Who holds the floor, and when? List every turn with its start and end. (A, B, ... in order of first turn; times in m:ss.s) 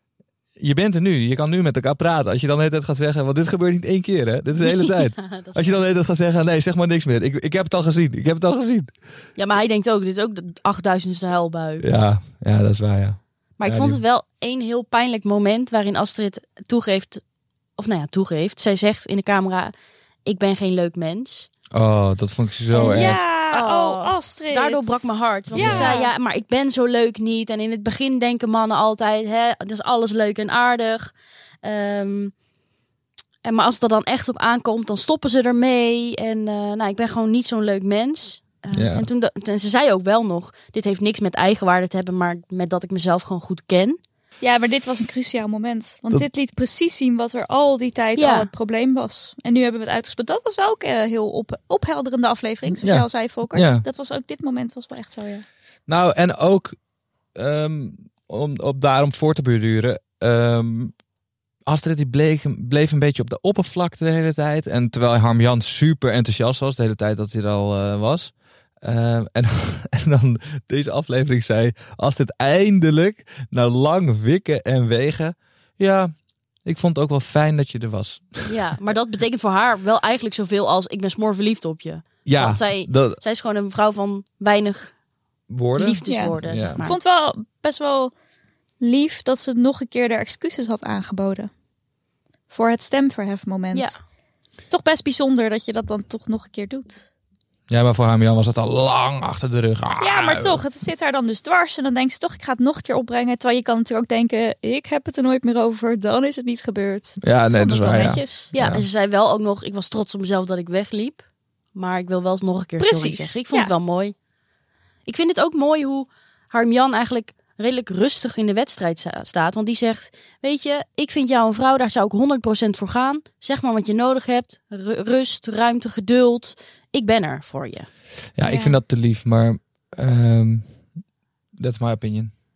0:00.6-0:08.9 A
0:04.6-0:05.8 B
0:09.4-0:11.9 B
0:11.8-0:14.0 A
0:13.6-0:17.2 B
0:17.8-0:19.7 B
0:20.2-0:21.5 B
0:21.7-0:23.2 A
0:22.7-0:32.3 B
0:22.8-0:26.1 C
0:25.5-0:26.0 A
0:33.4-0:44.0 B
0:38.7-0:39.1 A
0:44.4-0:55.4 C
0:48.2-0:48.5 B
0:52.8-0:53.8 A
0:55.9-0:56.8 A
0:57.4-1:00.9 A
1:01.6-1:16.1 A
1:16.6-1:18.6 A
1:18.4-1:24.9 B
1:22.2-1:23.2 A
1:25.5-1:26.8 A
1:25.8-1:27.0 B
1:26.1-1:28.1 C
1:28.8-1:31.5 C
1:32.5-1:34.0 C
1:34.7-1:37.1 C
1:37.7-1:40.6 A
1:40.0-1:48.5 C
1:47.2-1:48.8 A
1:48.5-1:51.2 B
1:51.8-1:54.1 B
1:52.8-1:53.7 C
1:55.1-2:07.9 B
2:08.4-2:10.7 A
2:08.4-2:08.8 C
2:11.6-2:12.3 A